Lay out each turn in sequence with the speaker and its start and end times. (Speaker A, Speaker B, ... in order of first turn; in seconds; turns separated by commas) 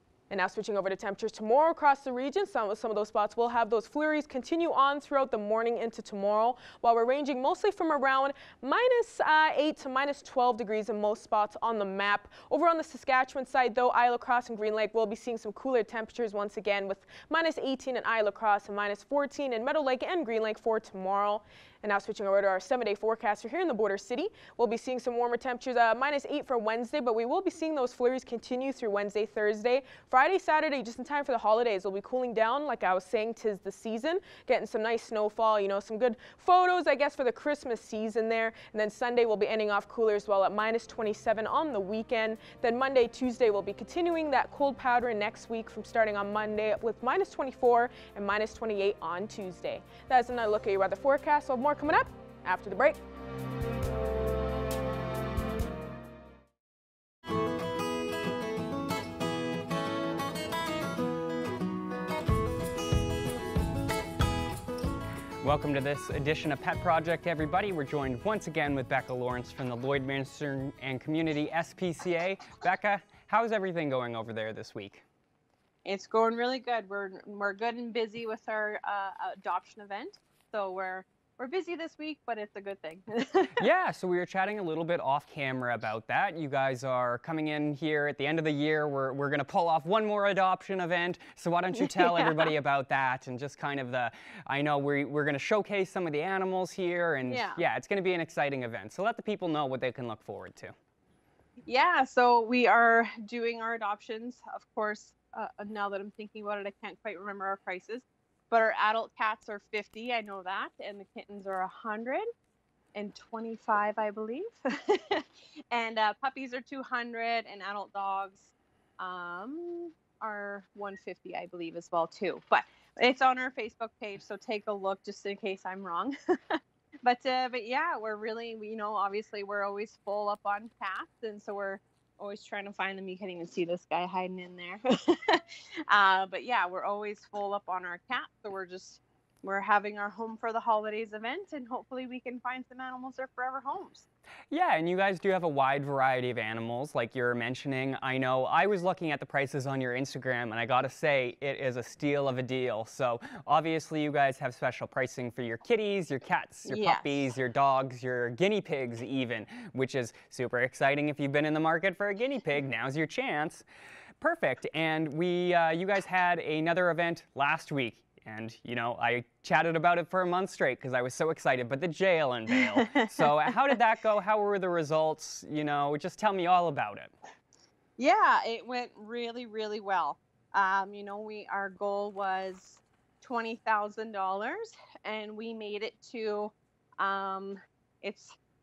Speaker A: 0.3-53.0, Speaker B: 65.4-75.0, Speaker C: 75.8-83.7, Speaker B: 83.6-100.7, Speaker C: 91.7-92.5, Speaker C: 97.3-97.6, Speaker C: 101.7-112.3, Speaker C: 113.0-144.1, Speaker B: 144.5-163.6, Speaker C: 156.7-157.3, Speaker B: 164.2-177.1, Speaker C: 172.7-173.6, Speaker C: 178.0-188.3